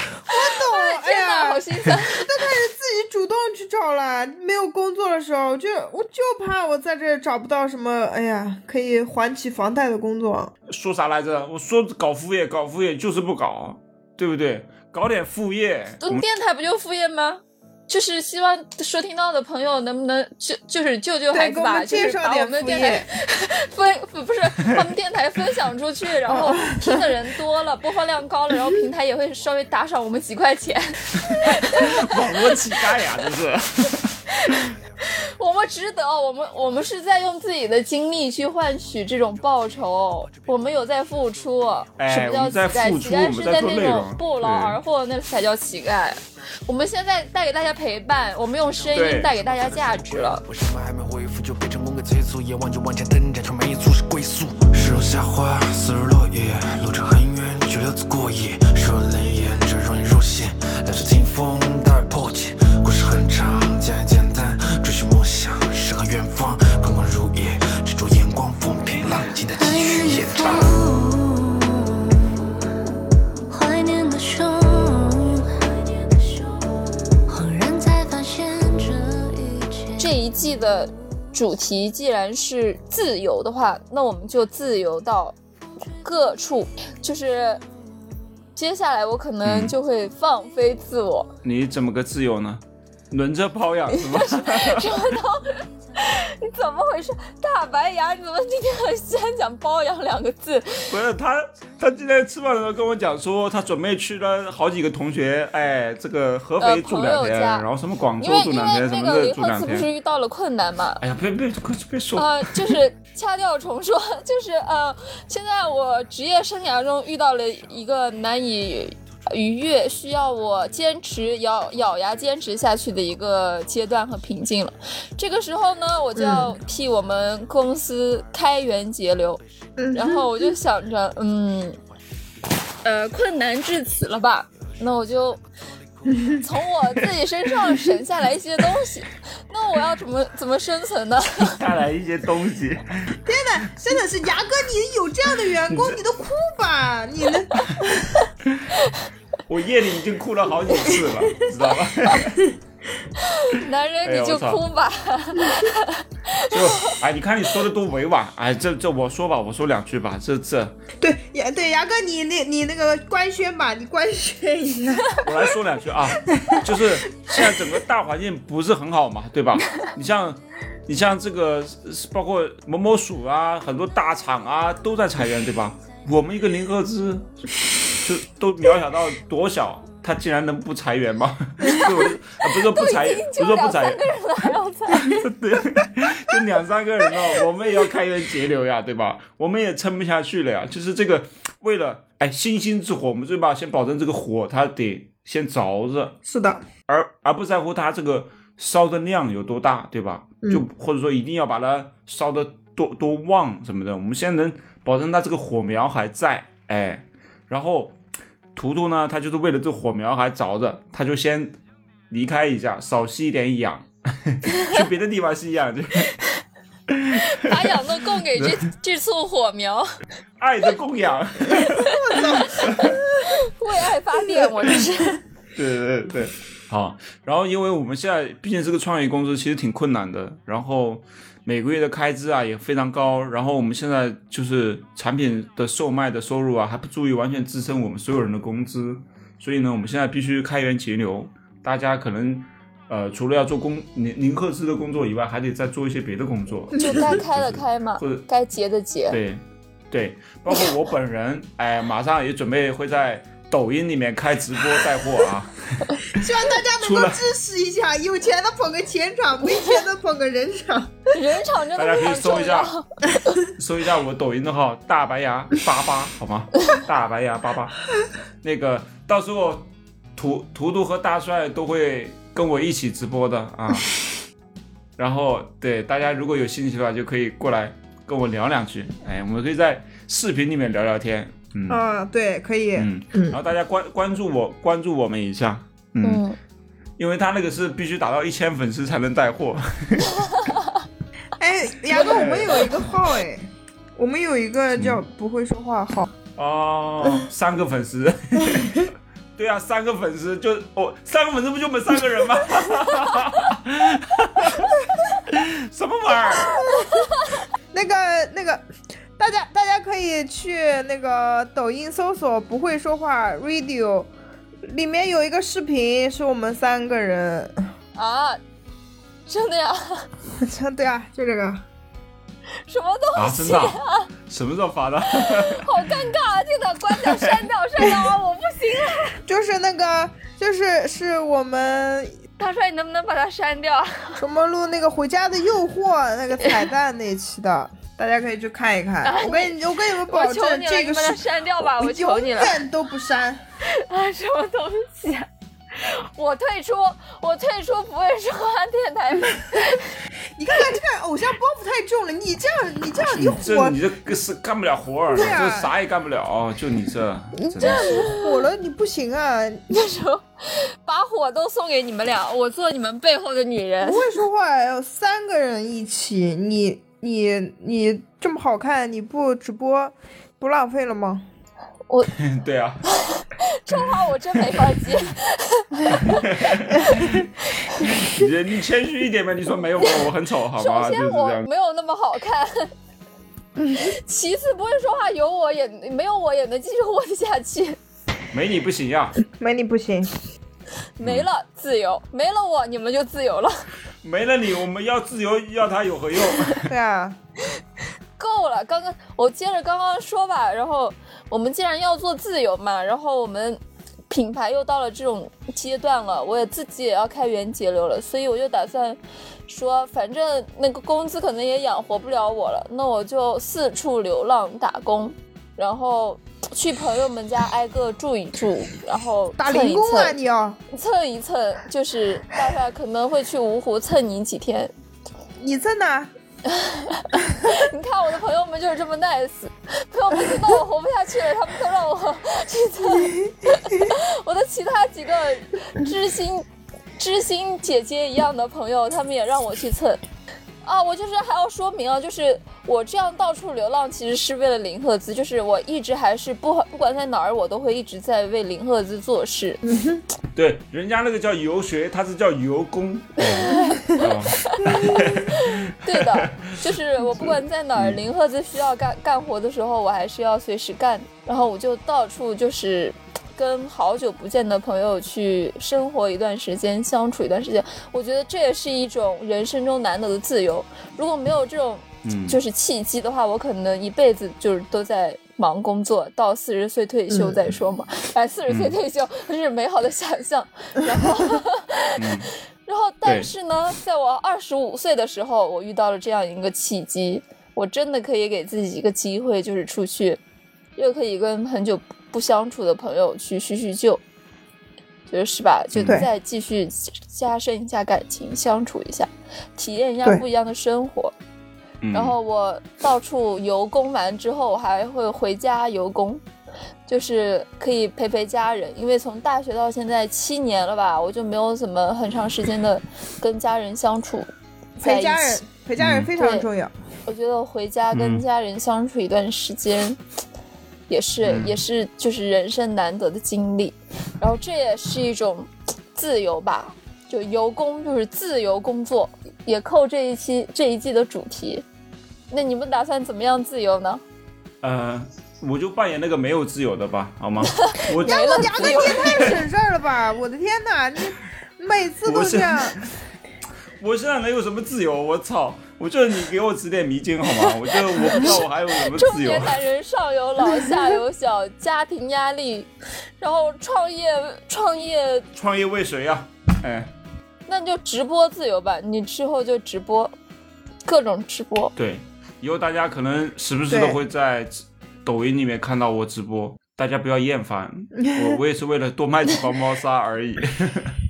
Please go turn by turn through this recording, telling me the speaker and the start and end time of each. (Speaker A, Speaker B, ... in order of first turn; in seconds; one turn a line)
Speaker A: 0.2-10.5
Speaker B: 0.3-2.3
Speaker C: 10.7-16.2
Speaker B: 16.0-32.7
Speaker A: 21.3-23.1
Speaker A: 26.3-27.1
Speaker C: 31.6-34.6
Speaker B: 34.3-50.4
Speaker C: 42.0-44.8
Speaker C: 48.9-49.4
Speaker D: 49.5-70.7
Speaker E: 69.5-72.3
Speaker E: 73.5-76.6
Speaker E: 77.3-80.1
Speaker B: 80.0-85.4
Speaker B: 86.0-87.6
Speaker B: 88.6-91.3
Speaker C: 89.4-89.8
Speaker C: 91.4-95.2
Speaker B: 93.9-101.0
Speaker C: 100.9-109.9
Speaker B: 106.6-107.7
Speaker B: 108.2-111.0
Speaker C: 111.0-112.8
Speaker B: 112.1-129.4
Speaker A: 126.2-126.5
Speaker A: 129.8-130.5
Speaker B: 129.9-131.8
Speaker B: 132.8-135.4
Speaker A: 136.1-136.4
Speaker B: 136.4-141.6
Speaker C: 141.4-143.2
Speaker A: 143.3-148.1
Speaker C: 145.7-146.0
Speaker C: 149.5-152.5
Speaker B: 153.2-157.0
Speaker C: 154.0-154.6
Speaker C: 156.5-160.8
Speaker A: 161.0-165.5
Speaker C: 165.2-177.3
Speaker A: 166.3-167.5
Speaker C: 178.0-184.0
Speaker B: 182.4-185.3
Speaker C: 184.9-196.2
Speaker A: 196.3-196.6
Speaker C: 196.9-208.0
Speaker C: 208.6-211.6
Speaker C: 212.1-216.2
Speaker C: 216.9-218.6
Speaker B: 217.2-219.9
Speaker C: 220.4-222.9
Speaker A: 221.9-223.3
Speaker B: 222.6-222.8
Speaker B: 223.4-225.2
Speaker C: 225.6-248.2
Speaker B: 246.7-249.2
Speaker A: 246.8-247.0
Speaker C: 249.1-257.2
Speaker A: 256.1-261.0
Speaker B: 261.1-262.9
Speaker C: 261.8-262.7
Speaker C: 263.5-267.8
Speaker C: 268.4-273.9
Speaker C: 275.0-281.8
Speaker A: 281.7-283.4
Speaker C: 282.8-286.2
Speaker B: 286.0-286.4
Speaker C: 287.0-290.1
Speaker A: 291.4-296.1
Speaker C: 291.9-292.8
Speaker C: 294.8-295.0
Speaker C: 296.4-306.6
Speaker A: 306.6-307.2
Speaker A: 307.7-308.6
Speaker A: 309.2-314.1
Speaker A: 314.6-317.6
Speaker B: 317.9-318.4
Speaker B: 319.3-320.1
Speaker A: 320.4-321.6
Speaker B: 322.7-324.1
Speaker C: 323.2-325.7
Speaker B: 325.1-329.2
Speaker C: 327.0-327.4
Speaker A: 329.3-332.1
Speaker B: 332.4-334.2
Speaker A: 334.2-343.4
Speaker B: 339.0-342.6
Speaker B: 343.7-349.9
Speaker A: 350.4-353.8
Speaker C: 353.0-358.1
Speaker A: 355.1-355.7
Speaker A: 357.4-359.6
Speaker B: 357.6-358.3
Speaker B: 359.7-364.1
Speaker A: 363.8-371.2
Speaker C: 372.1-372.9
Speaker B: 373.0-376.3
Speaker C: 376.0-377.3
Speaker B: 377.4-377.9
Speaker C: 377.8-381.5
Speaker B: 380.6-382.7
Speaker B: 383.8-387.8
Speaker C: 388.3-389.2
Speaker A: 389.3-390.1
Speaker B: 391.0-393.7
Speaker C: 391.0-391.3
Speaker C: 394.0-396.7
Speaker A: 396.7-397.2
Speaker B: 398.2-420.2
Speaker A: 419.4-420.6
Speaker B: 420.7-424.7
Speaker A: 425.4-426.1
Speaker B: 426.5-436.4
Speaker A: 432.8-433.9
Speaker B: 437.0-440.0
Speaker B: 440.6-449.6
Speaker A: 449.7-450.0
Speaker C: 450.3-458.0
Speaker B: 453.2-482.1
Speaker A: 454.7-455.1
Speaker C: 472.0-472.4
Speaker A: 477.1-477.4
Speaker C: 478.5-478.8
Speaker C: 482.0-482.3
Speaker B: 482.7-490.2
Speaker C: 483.1-483.3
Speaker B: 490.8-494.0
Speaker B: 495.1-501.1
Speaker C: 495.7-496.1
Speaker C: 501.8-502.2
Speaker B: 501.9-506.2
Speaker B: 506.9-514.3
Speaker A: 514.8-516.7
Speaker B: 514.8-515.4
Speaker C: 515.8-516.1
Speaker B: 516.2-516.5
Speaker B: 517.0-520.0
Speaker C: 517.9-518.2
Speaker B: 520.9-531.6
Speaker C: 521.2-521.5
Speaker B: 532.3-534.0
Speaker C: 534.6-539.4
Speaker B: 537.6-539.4
Speaker A: 538.0-542.8
Speaker C: 542.0-542.8
Speaker C: 543.8-549.6
Speaker B: 548.0-552.7
Speaker B: 553.2-555.3
Speaker C: 555.4-556.9
Speaker B: 557.5-560.1
Speaker B: 560.9-561.7
Speaker C: 561.8-571.0
Speaker A: 563.7-564.0
Speaker A: 568.0-568.4